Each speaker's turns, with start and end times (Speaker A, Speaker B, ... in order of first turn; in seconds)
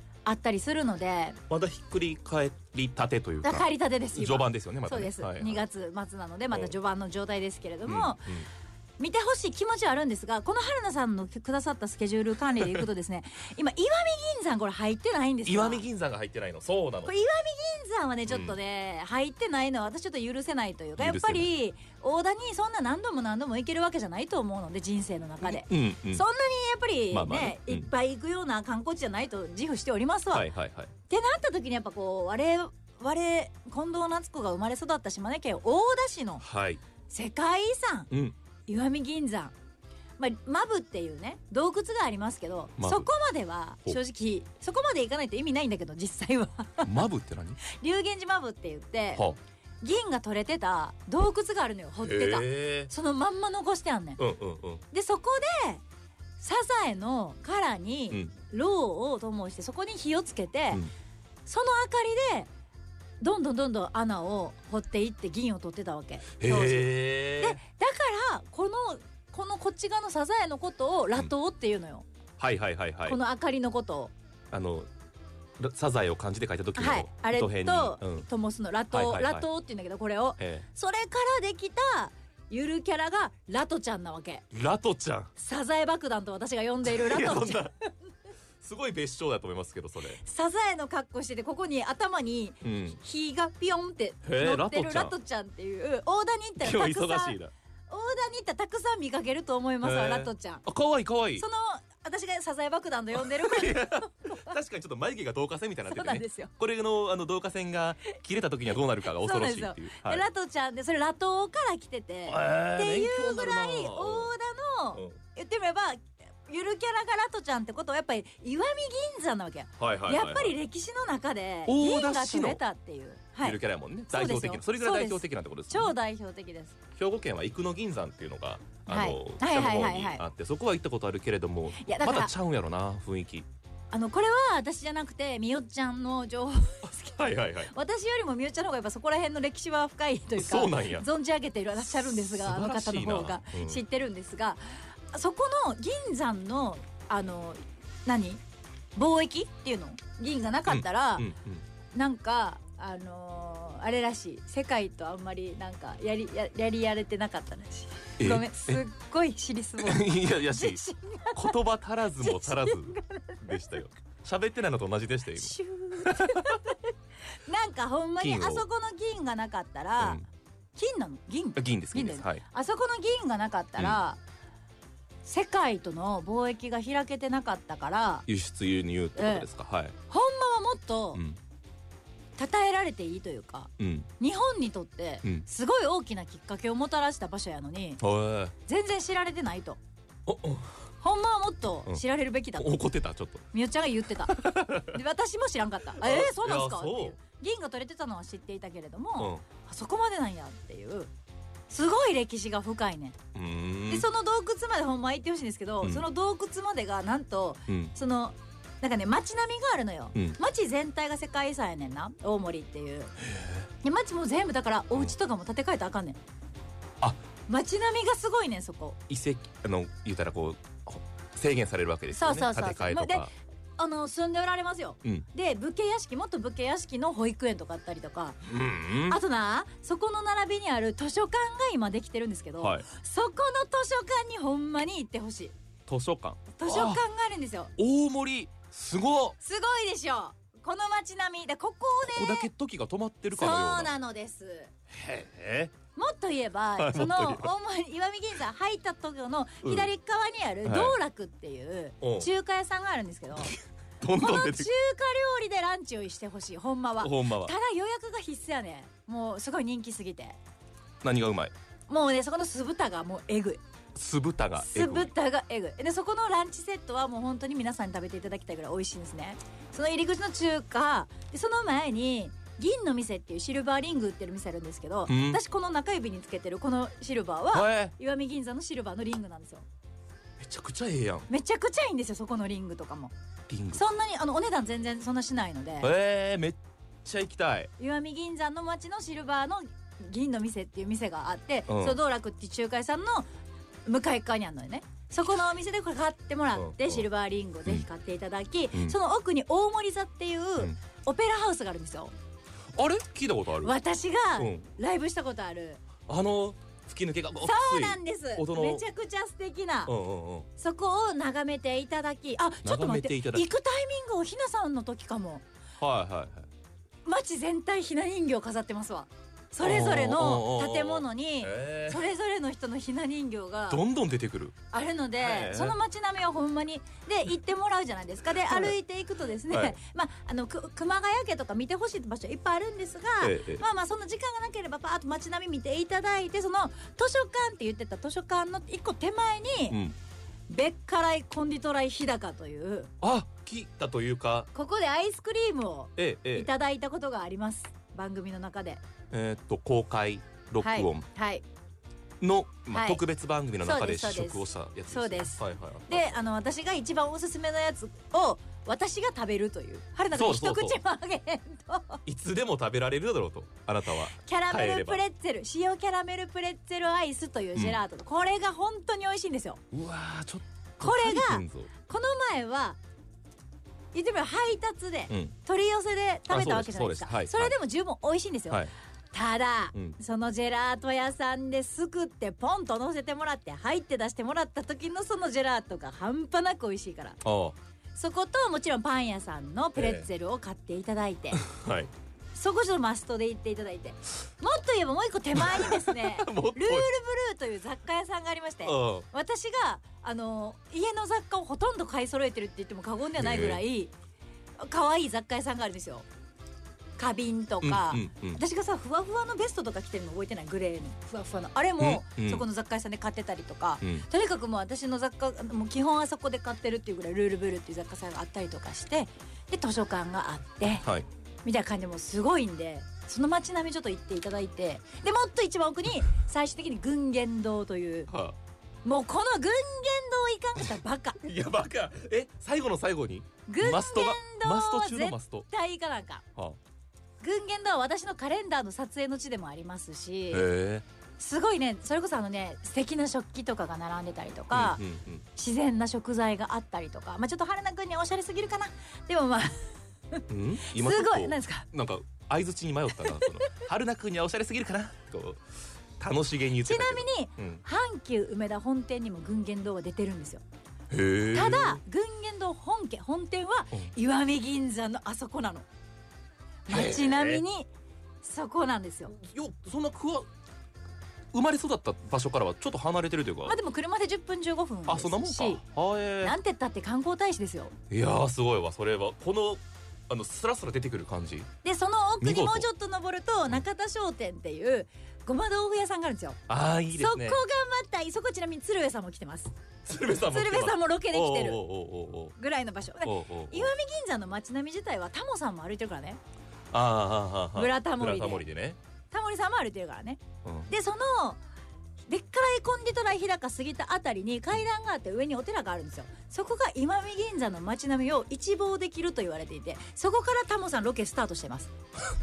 Speaker A: 0.2-1.4, 3.4-8.3, 9.0-15.8, 17.1-30.5, 31.1-36.4, 37.1-38.1, 38.7-39.5, 40.2-47.0, 47.6-49.2, 49.8-54.2, 54.9-55.8, 56.4-60.8, 61.5-62.5, 63.2-72.1, 73.1-74.1, 76.8-84.4, 85.4-87.7, 90.2-97.4, 97.9-100.6, 101.4-104.5, 105.9-106.5, 109.0-123.6, 124.1-126.8, 128.9-130.2, 131.8-132.3, 133.9-137.1, 137.7-148.4, 148.9-151.3, 151.9-161.6, 162.2-163.6, 165.4-166.8, 167.5-170.2, 170.8-174.2, 175.2-178.3, 179.2-179.5, 180.1-181.2, 182.4-188.0, 188.7-189.8, 191.0-192.8, 193.5-201.1, 201.7-203.2, 203.9-213.2, 213.8-216.2, 217.5-219.0, 222.1-228.4, 229.1-235.5, 236.6-237.7, 239.4-242.5, 243.3-244.7, 246.0-253.6, 254.2-260.4, 261.9-263.6, 264.6-279.7, 281.3-283.1, 283.7-285.9, 287.8-293.3, 293.9-302.1, 303.6-305.8, 307.4-309.9, 310.6-315.4, 317.1-323.8, 324.7-339.8, 340.5-342.9, 344.5-348.8, 350.6-351.4, 352.7-353.0, 353.6-362.0, 364.2-369.6, 370.8-372.8, 373.9-387.2, 387.9-391.4, 392.4-403.9, 404.6-406.1, 407.0-420.9, 421.4-428.1, 428.9-431.2, 433.5-436.2, 437.2-440.5, 441.2-444.8, 445.4-451.7, 456.6-460.4, 461.3-465.7, 466.7-467.7, 468.2-469.2, 473.5-475.6, 476.2-477.8, 481.6-486.4, 486.9-489.5, 490.3-491.6, 492.4-496.2, 497.6-498.5, 499.1-501.4, 502.1-511.7
Speaker B: 1.5-5.6, 7.9-8.5, 15.5-17.1, 18.3-18.6, 21.0-21.5, 25.4-26.2, 27.1-27.9, 30.3-30.9, 36.4-36.8, 42.8-43.1, 46.8-47.6, 52.0-52.9, 54.2-54.8, 66.4-67.6, 72.4-73.2, 74.5-74.9, 75.6-78.3, 78.9-79.5, 80.4-80.7, 84.5-85.3, 86.9-87.7, 88.6-90.2, 92.6-93.0, 94.2-95.2, 96.6-97.5, 99.8-101.5, 103.2-110.2, 112.3-114.3, 119.8-120.6, 121.7-122.6, 123.4-126.0, 127.0-133.5, 136.8-137.7, 140.4-141.1, 141.8-143.8, 150.7-151.6, 158.2-158.8, 159.8-160.8, 161.3-166.6, 168.2-168.7, 171.6-172.4, 178.3-180.0, 183.8-184.1, 188.0-188.5, 190.3-190.8, 192.6-193.5, 194.3-194.9, 196.0-197.2, 199.2-199.4, 203.3-204.1, 207.7-207.9, 213.2-213.7, 219.1-223.3, 228.5-229.2, 232.6-232.9, 235.9-237.0, 237.8-239.4, 242.1-243.9, 244.9-245.7, 246.8-247.5, 250.7-251.0, 252.0-252.3, 253.5-254.7, 257.0-257.5, 261.0-261.5, 263.9-265.1, 275.1-275.4, 277.5-277.9, 280.4-281.3, 283.5-283.9, 285.8-287.7, 291.7-292.0, 296.6-297.1, 302.8-303.8, 304.4-304.6, 306.1-308.9, 309.9-310.5, 312.6-313.4, 315.8-316.5, 319.6-322.1, 323.7-324.6, 325.2-325.8, 328.5-328.7, 329.5-329.8, 333.2-333.6, 339.7-339.9, 343.0-344.5, 346.0-346.5, 349.1-351.1, 352.2-356.2, 360.1-360.8, 362.1-365.0, 369.7-371.7, 375.1-375.4, 376.3-377.6, 387.2-387.6, 389.8-390.1, 391.4-391.9, 395.4-396.9, 398.6-399.1, 403.2-403.6, 407.6-408.4, 411.8-412.5, 413.8-414.1, 420.7-421.1, 428.1-428.4, 431.2-435.5, 440.3-440.9, 444.5-445.2, 450.3-455.4, 456.0-457.6, 460.9-461.8, 466.7-467.4, 469.1-470.3, 471.3-473.6, 474.9-476.4, 477.9-481.5, 482.2-482.7, 486.5-487.4, 489.9-492.4, 493.0-493.7, 496.7-498.8, 500.4-500.7